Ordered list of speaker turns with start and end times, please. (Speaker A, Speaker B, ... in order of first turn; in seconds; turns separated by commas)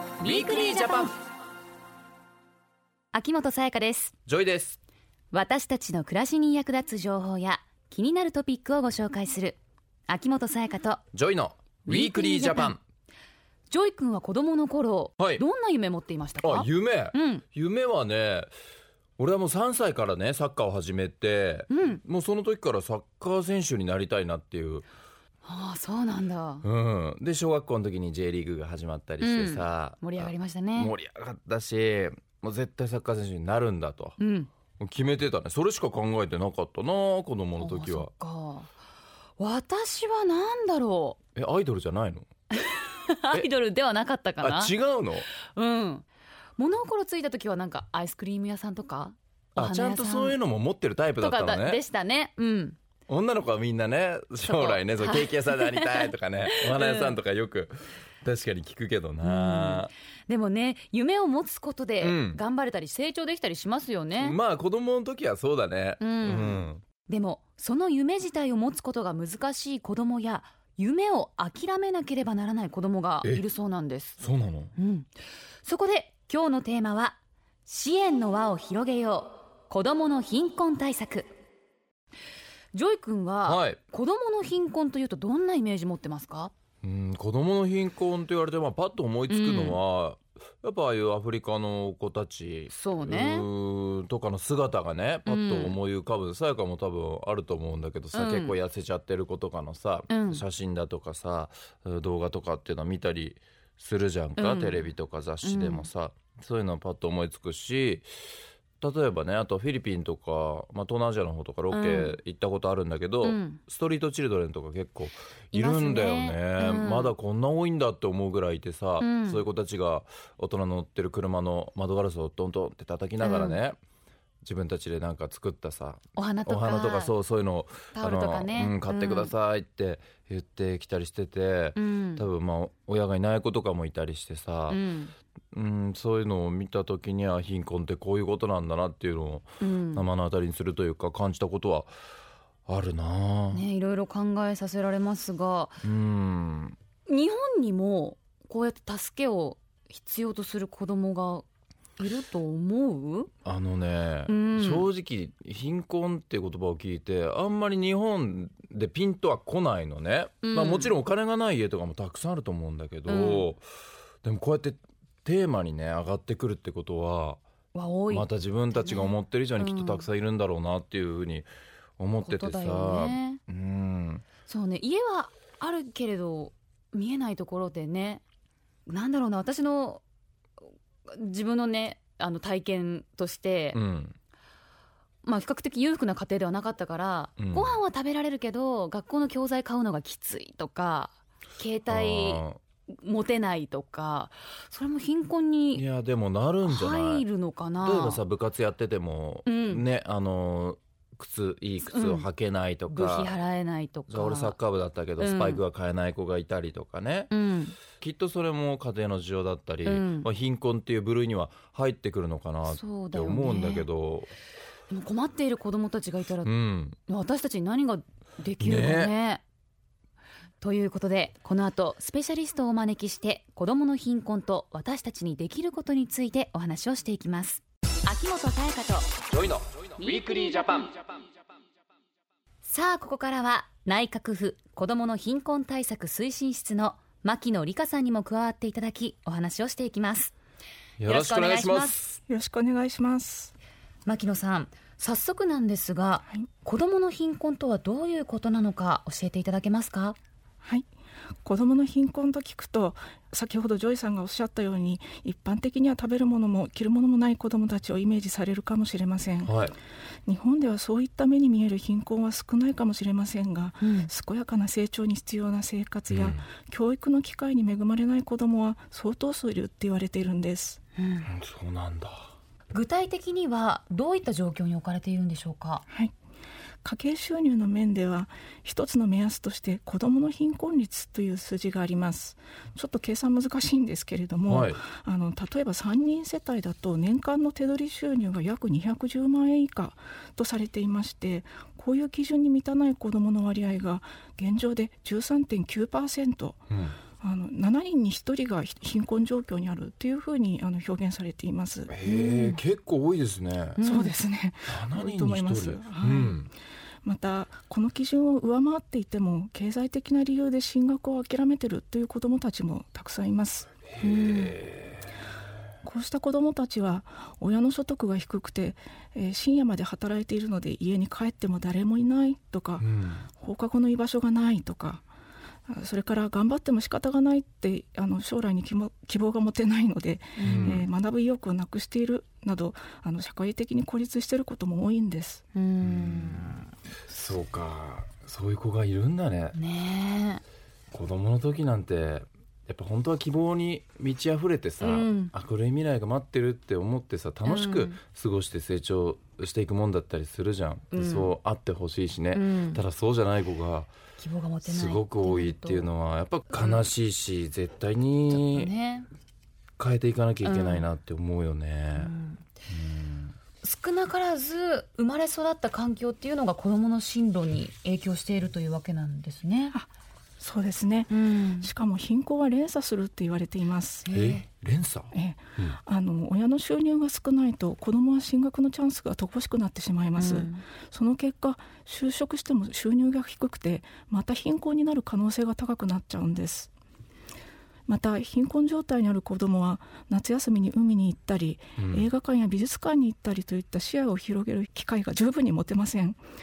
Speaker A: 0.2-1.2, Speaker B: 0.2-1.2, Speaker B: 3.1-4.2, Speaker A: 4.3-4.8, Speaker B: 5.3-11.0, Speaker A: 11.1-12.8, Speaker B: 11.9-12.8, Speaker B: 13.7-17.4, Speaker A: 16.4-18.5, Speaker A: 19.2-24.9, Speaker B: 21.7-22.0, Speaker B: 25.4-26.6, Speaker A: 26.6-34.2, Speaker B: 29.2-30.9, Speaker B: 34.2-34.5, Speaker A: 34.8-38.1, Speaker B: 37.6-38.7, Speaker B: 39.4-41.2, Speaker A: 41.4-42.3, Speaker B: 42.5-44.7, Speaker A: 44.4-45.3, Speaker B: 45.4-46.1, Speaker B: 46.6-50.4, Speaker A: 49.5-51.8, Speaker B: 51.2-52.8, Speaker A: 53.1-59.9, Speaker B: 54.4-57.2, Speaker B: 59.2-64.4, Speaker A: 62.0-62.4, Speaker A: 64.2-66.8, Speaker B: 66.0-74.2, Speaker A: 74.2-74.7, Speaker B: 74.8-75.1, Speaker B: 75.6-81.3, Speaker B: 82.7-86.5, Speaker A: 83.5-83.8, Speaker A: 86.8-108.1, Speaker B: 89.3-89.8, Speaker B: 92.7-93.5, Speaker B: 95.3-95.8, Speaker B: 98.1-98.6, Speaker B: 100.1-100.4, Speaker B: 104.4-104.9, Speaker B: 105.4-105.9, Speaker A: 108.8-123.8, Speaker B: 111.7-112.2, Speaker B: 113.2-113.6, Speaker B: 115.5-117.2, Speaker B: 119.0-119.5, Speaker B: 123.2-123.6, Speaker A: 124.4-134.8, Speaker B: 126.2-127.2, Speaker B: 127.9-129.3, Speaker B: 131.8-132.3, Speaker B: 134.7-135.2, Speaker A: 135.5-141.9, Speaker B: 139.6-140.1, Speaker A: 142.7-143.7, Speaker B: 143.5-145.8, Speaker A: 145.8-146.8, Speaker B: 147.1-151.4, Speaker B: 152.0-153.3, Speaker A: 153.4-163.7, Speaker B: 154.3-154.9, Speaker B: 160.4-160.9, Speaker B: 163.1-163.5, Speaker A: 164.2-167.4, Speaker B: 167.7-170.1, Speaker A: 168.1-171.5, Speaker A: 172.0-174.3, Speaker B: 172.2-173.4, Speaker B: 174.5-178.2, Speaker B: 178.9-180.0, Speaker B: 181.1-183.8, Speaker A: 183.7-184.2, Speaker B: 185.2-192.4, Speaker A: 187.4-187.8, Speaker A: 191.9-192.6, Speaker B: 193.0-195.8, Speaker A: 195.8-197.2, Speaker B: 196.6-198.2, Speaker A: 197.8-203.4, Speaker B: 199.5-199.8, Speaker B: 201.9-202.3, Speaker B: 202.9-204.6, Speaker A: 204.1-207.3, Speaker B: 205.2-205.6, Speaker B: 207.3-207.8, Speaker A: 207.9-214.3, Speaker B: 209.8-210.3, Speaker B: 212.7-213.9, Speaker B: 214.9-216.5, Speaker A: 216.4-217.0, Speaker B: 217.1-219.4, Speaker A: 218.6-219.2, Speaker B: 220.6-229.2, Speaker A: 229.3-230.9, Speaker B: 230.0-230.9, Speaker B: 232.6-240.3, Speaker A: 241.0-242.2, Speaker B: 241.1-242.0, Speaker C: 242.3-243.5, Speaker B: 244.1-250.2, Speaker C: 251.4-259.5, Speaker A: 259.4-259.8, Speaker C: 260.3-270.8, Speaker B: 263.8-264.1, Speaker A: 266.1-266.4, Speaker B: 271.0-271.3, Speaker A: 271.3-272.3, Speaker B: 272.7-275.8, Speaker C: 276.8-296.6, Speaker A: 284.5-284.8, Speaker A: 296.7-297.0, Speaker C: 297.2-301.9, Speaker A: 301.9-303.8, Speaker B: 302.0-302.6, Speaker B: 303.8-304.1, Speaker C: 303.8-306.5, Speaker A: 304.7-306.5, Speaker C: 307.0-313.7, Speaker A: 313.9-315.0, Speaker B: 314.0-314.6, Speaker C: 315.8-325.0, Speaker A: 322.8-323.3, Speaker C: 325.7-335.4, Speaker B: 330.4-330.9, Speaker A: 330.4-330.8, Speaker B: 335.6-336.7, Speaker A: 335.8-339.6, Speaker B: 339.6-340.4, Speaker A: 340.9-353.9, Speaker B: 344.8-345.3, Speaker B: 347.4-348.0, Speaker B: 350.9-351.3, Speaker B: 352.3-352.8, Speaker B: 354.2-355.9, Speaker A: 354.6-358.7, Speaker B: 356.5-356.9, Speaker B: 358.3-359.1, Speaker A: 359.8-362.1, Speaker B: 360.4-360.9, Speaker B: 362.0-362.5, Speaker A: 362.7-363.4, Speaker B: 363.6-369.8, Speaker C: 370.4-374.1, Speaker B: 371.1-371.7, Speaker B: 374.1-374.5, Speaker A: 374.1-375.7, Speaker C: 375.1-386.7, Speaker B: 380.2-380.6, Speaker C: 387.9-396.2, Speaker A: 391.8-392.1